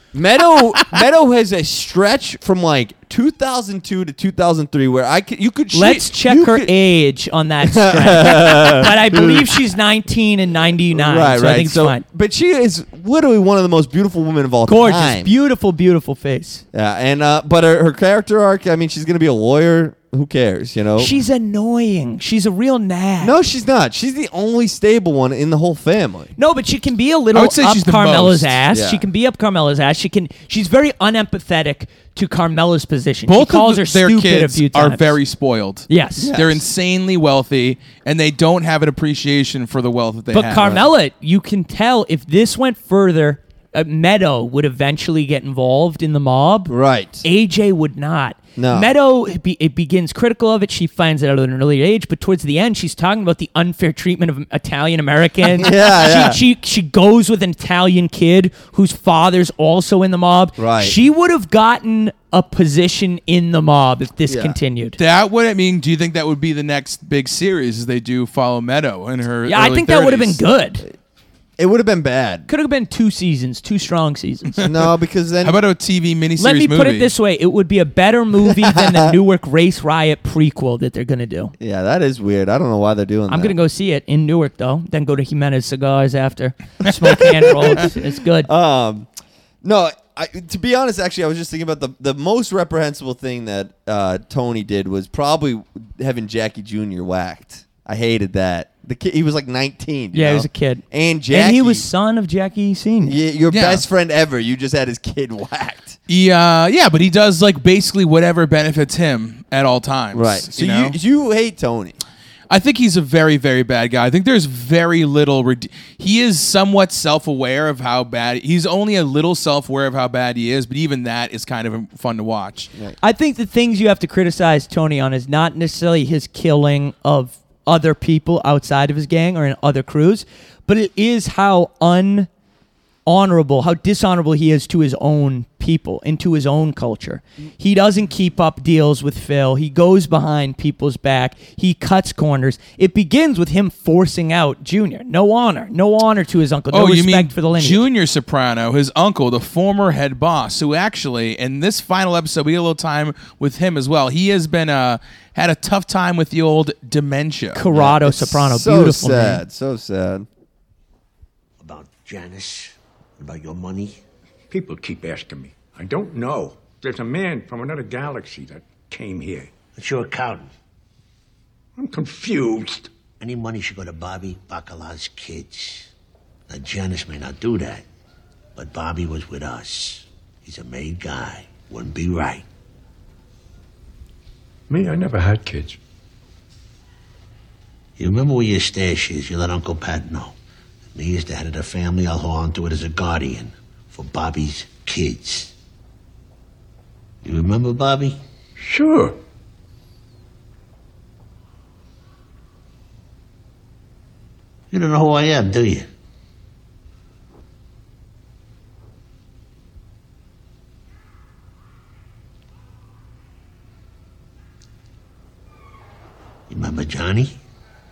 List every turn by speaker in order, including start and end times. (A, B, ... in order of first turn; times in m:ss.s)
0:00.1-0:06.7 A
0:05.7-0:12.0 B
0:07.6-0:09.5 A
0:10.9-0:15.3 A
0:14.7-0:16.6 B
0:16.7-0:21.2 A
0:21.0-0:23.3 B
0:23.2-0:26.3 A
0:26.4-0:35.1 B
0:27.3-0:28.6 C
0:28.7-0:29.0 A
0:33.3-0:40.8 C
0:35.9-0:36.3 B
0:36.2-0:36.6 A
0:40.3-1:05.0 B
0:46.7-0:47.2 A
0:48.6-0:48.9 A
0:55.4-0:56.4 A
1:00.6-1:01.0 A
1:04.3-1:04.6 A
1:05.0-1:10.4 C
1:09.5-1:10.8 B
1:11.6-1:12.5 A
1:12.5-1:14.6 B
1:14.6-1:15.6 A
1:15.4-1:17.1 C
1:16.4-1:21.5 B
1:18.4-1:19.1 A
1:21.6-1:23.5 A
1:23.3-1:28.5 B
1:27.2-1:27.9 A
1:28.4-1:29.1 A
1:29.6-1:41.8 A
1:40.1-1:43.2 B
1:43.0-1:46.0 A
1:43.5-1:43.8 C
1:46.1-1:51.0 C
1:50.1-1:52.0 A
1:52.5-2:02.7 C
2:03.0-2:12.3 B
2:13.0-2:27.8 B
2:26.7-2:37.6 C
2:37.5-2:39.4 B
2:37.7-2:40.3 A
2:41.6-2:44.0 D
2:44.5-2:49.5 E
2:49.7-2:50.5 D
2:51.8-2:52.9 E
2:53.2-2:55.9 D
2:56.5-2:57.8 D
2:58.5-3:02.4 D
3:04.7-3:05.8 E
3:08.0-3:10.3 D
3:10.9-3:15.5 D
3:17.2-3:18.2 D
3:18.6-3:19.2 E
3:24.7-3:25.9 D
3:36.5-3:37.4 D